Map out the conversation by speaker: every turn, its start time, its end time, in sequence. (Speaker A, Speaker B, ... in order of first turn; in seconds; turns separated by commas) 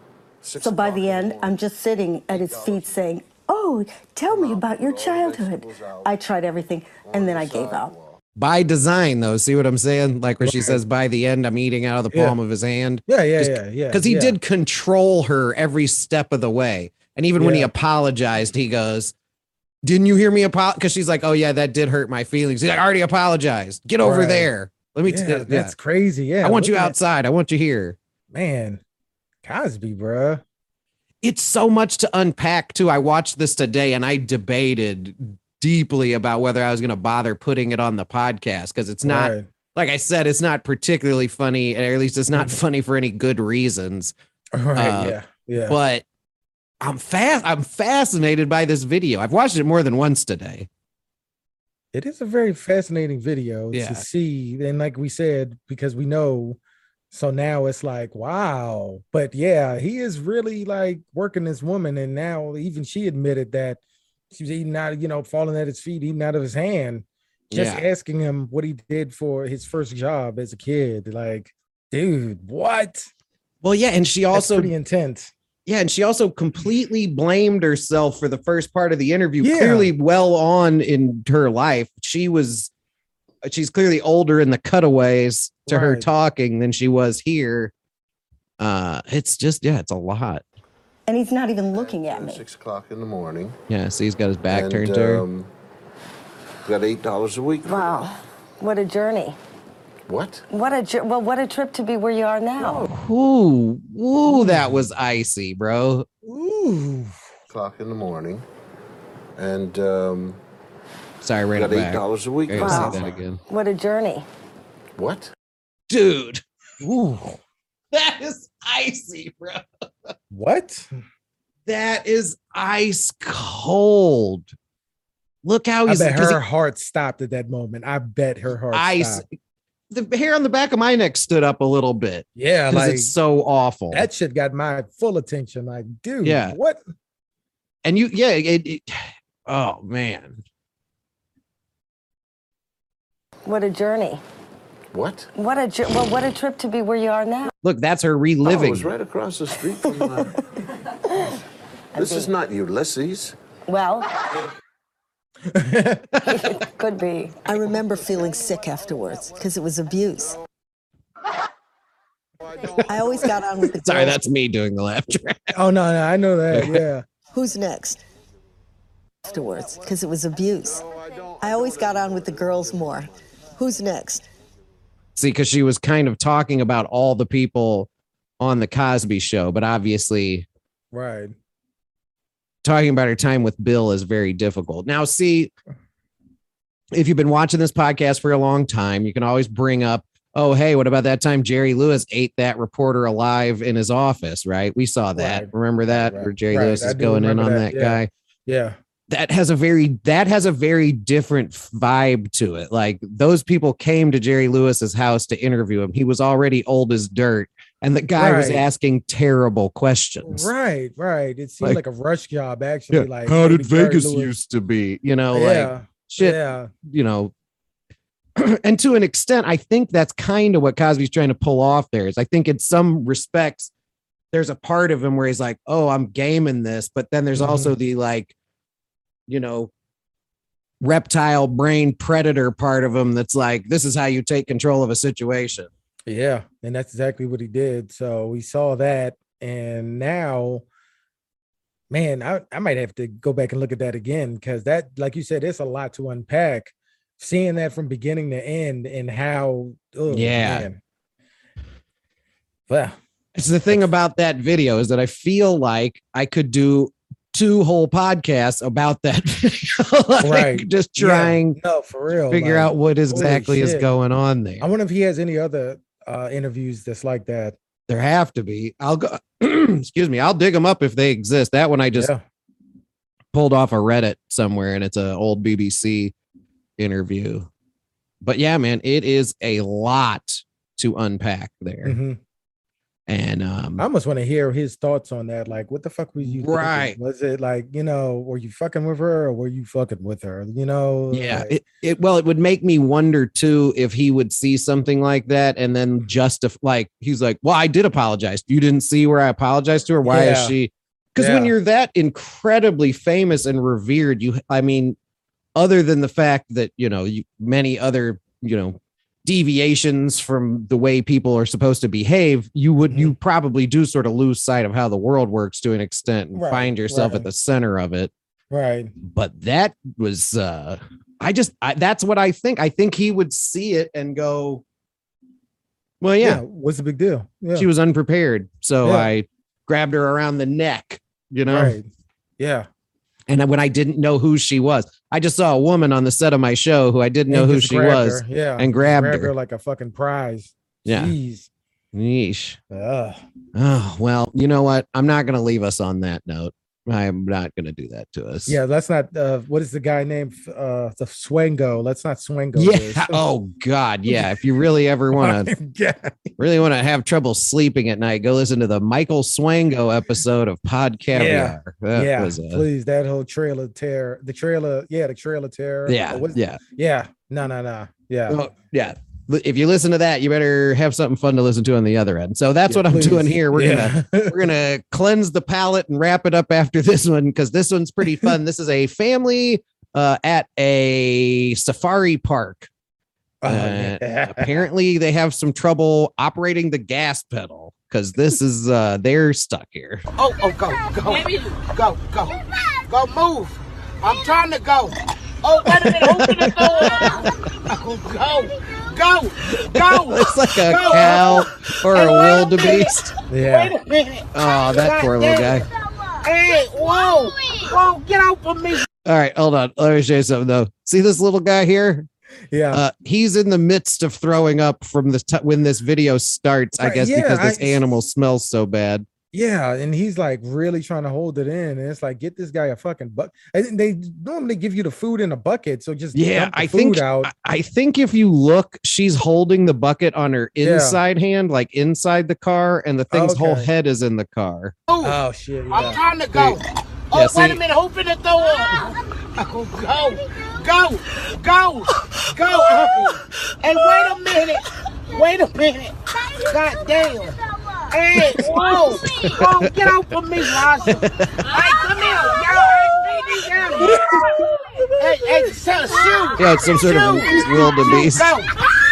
Speaker A: 0.4-1.7, Speaker B: 0.6-7.9, Speaker A: 2.3-3.1, Speaker A: 4.3-6.2, Speaker A: 7.0-8.2, Speaker C: 8.4-19.1, Speaker D: 10.4-10.8, Speaker D: 12.1-12.4, Speaker D: 13.1-14.4, Speaker D: 17.4-17.7, Speaker C: 19.8-25.7, Speaker D: 24.0-24.5, Speaker D: 25.1-27.0, Speaker C: 26.4-28.0, Speaker D: 28.3-28.8, Speaker D: 29.4-30.4, Speaker C: 31.2-44.1, Speaker D: 39.0-39.5, Speaker D: 44.5-45.8, Speaker C: 44.8-45.2, Speaker C: 45.7-46.0, Speaker C: 46.8-50.7, Speaker D: 51.9-56.6, Speaker C: 53.7-54.0, Speaker D: 57.1-63.8, Speaker D: 64.3-73.1, Speaker C: 67.5-67.8, Speaker C: 73.6-74.7, Speaker D: 74.3-75.3, Speaker C: 75.7-82.7, Speaker D: 79.4-79.9, Speaker C: 83.4-87.7, Speaker D: 85.7-86.1, Speaker C: 88.6-90.4, Speaker B: 91.1-92.4, Speaker A: 91.7-93.6, Speaker C: 93.7-95.2, Speaker A: 94.5-95.5, Speaker A: 96.7-98.0, Speaker B: 97.7-99.4, Speaker A: 100.1-100.4, Speaker B: 100.5-102.9, Speaker A: 102.6-102.9, Speaker C: 102.9-106.1, Speaker D: 104.2-104.9, Speaker D: 106.2-107.2, Speaker A: 107.5-108.4, Speaker A: 109.4-110.4, Speaker C: 111.2-113.4, Speaker A: 111.5-113.2, Speaker B: 112.6-114.3, Speaker A: 115.0-115.3, Speaker C: 115.9-116.4, Speaker D: 116.8-117.4, Speaker C: 117.9-119.6, Speaker D: 120.3-120.9, Speaker C: 121.7-124.5, Speaker C: 125.4-126.4, Speaker D: 125.9-129.2, Speaker C: 128.7-129.2, Speaker C: 129.9-134.1, Speaker D: 132.4-133.1, Speaker D: 133.9-136.8, Speaker C: 136.2-136.6, Speaker C: 137.8-140.4, Speaker B: 143.4-144.2, Speaker A: 144.9-145.3, Speaker B: 145.3-147.5, Speaker C: 147.6-148.9, Speaker A: 148.4-150.3, Speaker B: 149.5-150.2, Speaker B: 151.1-151.4, Speaker B: 151.9-152.3, Speaker A: 151.9-153.4, Speaker B: 153.7-154.1, Speaker D: 155.5-156.1, Speaker B: 156.2-157.4, Speaker E: 157.5-160.4, Speaker E: 162.9-164.2, Speaker C: 163.7-165.4, Speaker D: 165.5-167.1, Speaker C: 166.5-166.8, Speaker E: 167.3-168.0, Speaker E: 169.2-170.9, Speaker E: 171.4-174.3, Speaker A: 171.9-173.1, Speaker C: 175.2-177.9, Speaker C: 178.4-180.5, Speaker D: 180.9-181.3, Speaker C: 182.6-185.5, Speaker C: 186.9-198.1, Speaker D: 195.2-198.8, Speaker C: 199.1-210.5, Speaker D: 208.2-208.6, Speaker D: 210.2-214.3, Speaker C: 212.9-217.3, Speaker D: 215.3-216.7, Speaker C: 218.4-223.7, Speaker C: 224.3-228.3, Speaker D: 227.4-227.7, Speaker C: 229.3-229.7, Speaker C: 230.8-235.7, Speaker D: 236.1-240.7, Speaker D: 241.9-250.8, Speaker C: 250.1-250.7, Speaker D: 252.7-253.0, Speaker C: 253.3-261.6, Speaker D: 260.2-263.9, Speaker C: 262.3-264.7, Speaker D: 264.6-267.6, Speaker C: 267.9-272.1, Speaker D: 272.0-272.2, Speaker C: 273.3-276.1, Speaker C: 276.8-277.5, Speaker C: 278.2-282.0, Speaker D: 281.8-282.2, Speaker C: 283.1-283.9, Speaker D: 283.8-291.5, Speaker C: 286.2-287.0, Speaker C: 291.1-305.0, Speaker D: 300.0-300.6, Speaker D: 301.2-301.5, Speaker C: 305.6-318.1, Speaker D: 312.9-313.1, Speaker D: 316.3-317.3, Speaker D: 318.5-318.9, Speaker C: 319.0-324.6, Speaker C: 326.0-326.4, Speaker D: 326.2-327.7, Speaker C: 327.6-331.8, Speaker D: 328.8-329.1, Speaker D: 331.4-331.9, Speaker D: 332.4-332.7, Speaker C: 333.3-339.3, Speaker D: 337.3-341.5, Speaker C: 340.9-341.1, Speaker C: 341.9-342.6, Speaker D: 342.7-343.2, Speaker C: 343.6-348.6, Speaker D: 348.5-353.2, Speaker C: 352.6-355.5, Speaker D: 354.1-354.4, Speaker D: 355.1-356.3, Speaker C: 356.4-362.6, Speaker D: 361.1-368.4, Speaker C: 365.9-366.6, Speaker C: 368.3-382.7, Speaker D: 372.7-374.5, Speaker D: 383.4-384.6, Speaker C: 383.4-390.0, Speaker F: 390.2-405.6, Speaker C: 395.8-397.1, Speaker C: 399.8-403.1, Speaker D: 403.3-403.8, Speaker C: 404.3-405.7, Speaker F: 406.2-408.9, Speaker C: 409.1-412.1, Speaker D: 412.5-412.8, Speaker C: 412.7-419.1, Speaker D: 416.8-417.8, Speaker D: 419.3-427.3, Speaker C: 426.1-434.8, Speaker D: 430.6-431.0, Speaker D: 433.1-433.7, Speaker F: 434.9-435.2, Speaker D: 435.0-436.0, Speaker F: 435.7-454.1, Speaker C: 437.1-437.6, Speaker C: 449.2-449.9, Speaker C: 451.0-451.3, Speaker F: 455.0-458.6, Speaker C: 456.4-458.3